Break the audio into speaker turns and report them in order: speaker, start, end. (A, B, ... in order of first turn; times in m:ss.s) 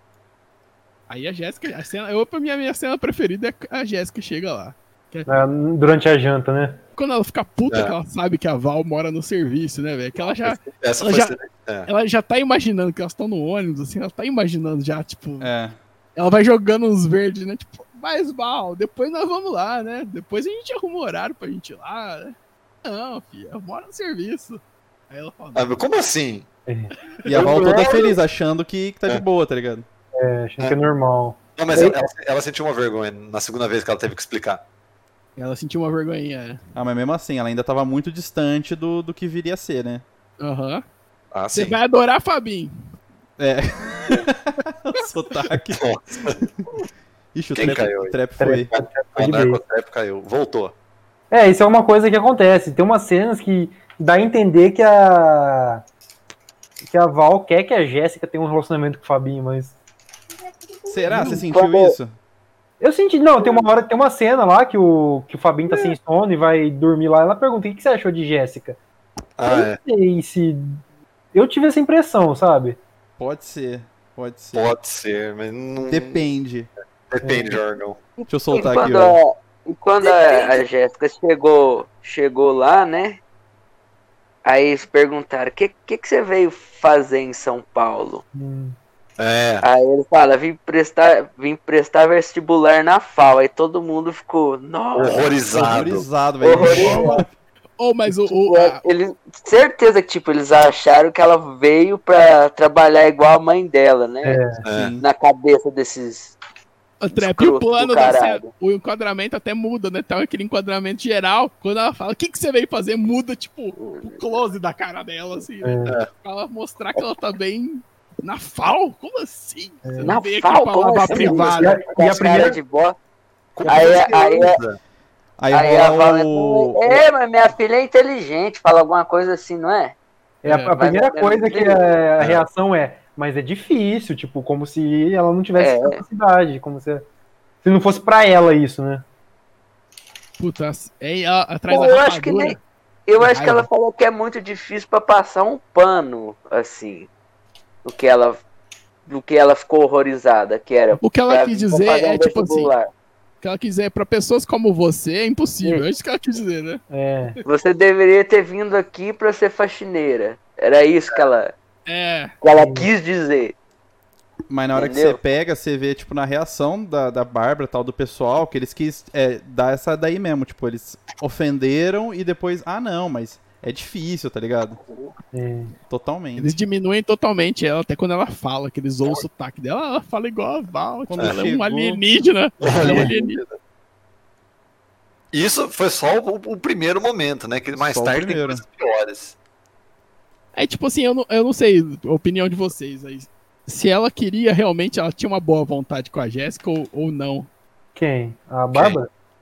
0:01.1-0:05.3 A
0:05.3-0:06.8 B
0:06.9-0:11.4 A
0:10.6-0:11.9 C
0:11.9-0:15.5 A
0:15.4-0:15.8 D
0:16.2-0:25.7 A
0:25.6-0:26.5 C
0:26.7-0:28.1 B
0:27.3-0:29.9 D
0:27.3-0:28.2 C
0:30.1-0:32.1 B
0:31.6-0:34.6 C
0:35.4-0:36.6 A
0:36.7-0:40.0 D
0:40.4-0:40.8 A
0:41.3-0:41.8 C
0:41.5-0:42.8 A
0:43.4-0:45.8 D
0:45.7-0:46.4 C
0:47.3-0:48.7 D
0:47.6-0:48.2 C
0:48.4-0:49.6 B
0:49.1-0:50.7 C
0:51.3-0:55.8 B
0:56.8-0:59.8 B
1:00.9-1:02.1 D
1:01.1-1:01.4 B
1:01.1-1:02.0 E
1:02.8-1:08.8 B
1:09.4-1:09.8 C
1:09.4-1:10.8 B
1:11.3-1:12.8 B
1:13.2-1:14.7 D
1:14.5-1:16.3 C
1:15.8-1:16.7 D
1:17.1-1:18.0 C
1:17.2-1:17.6 B
1:18.2-1:23.2 E
1:18.3-1:19.2 D
1:24.4-1:28.2 E
1:28.3-1:28.8 B
1:29.2-1:29.6 C
1:29.6-1:35.4 E
1:35.0-1:36.1 C
1:35.5-1:37.2 D
1:36.4-1:37.2 E
1:37.8-1:38.8 A
1:38.4-1:46.4 E
1:44.2-1:44.6 B
1:44.6-1:45.0 C
1:44.7-1:45.0 D
1:47.0-2:01.8 A
1:47.1-1:48.5 E
1:53.8-1:54.2 E
1:55.6-1:56.0 B
1:59.8-2:00.2 B
2:00.0-2:03.0 E
2:01.6-2:02.6 B
2:03.6-2:04.8 C
2:03.7-2:04.6 E
2:05.4-2:07.0 D
2:05.5-2:09.9 E
2:10.4-2:17.0 B
2:10.4-2:10.7 A
2:10.8-2:11.9 E
2:15.6-2:16.0 E
2:17.6-2:19.0 B
2:20.4-2:22.6 A
2:21.7-2:27.1 E
2:23.2-2:23.7 A
2:27.8-2:28.4 E
2:29.1-2:32.9 E
2:31.0-2:32.7 A
2:33.4-2:36.8 A
2:36.9-2:37.4 B
2:37.4-2:41.5 E
2:41.9-2:42.3 A
2:42.4-2:43.6 E
2:42.5-2:42.9 B
2:44.5-2:54.8 D
2:44.7-2:45.2 E
2:55.3-2:55.7 B
2:55.9-2:56.5 D
2:56.4-3:03.4 A
3:01.1-3:02.0 D
3:01.2-3:01.5 C
3:02.6-3:03.6 C
3:02.8-3:03.1 B
3:05.3-3:09.4 C
3:07.7-3:08.6 D
3:10.6-3:17.5 A
3:17.9-3:19.1 B
3:18.7-3:19.0 C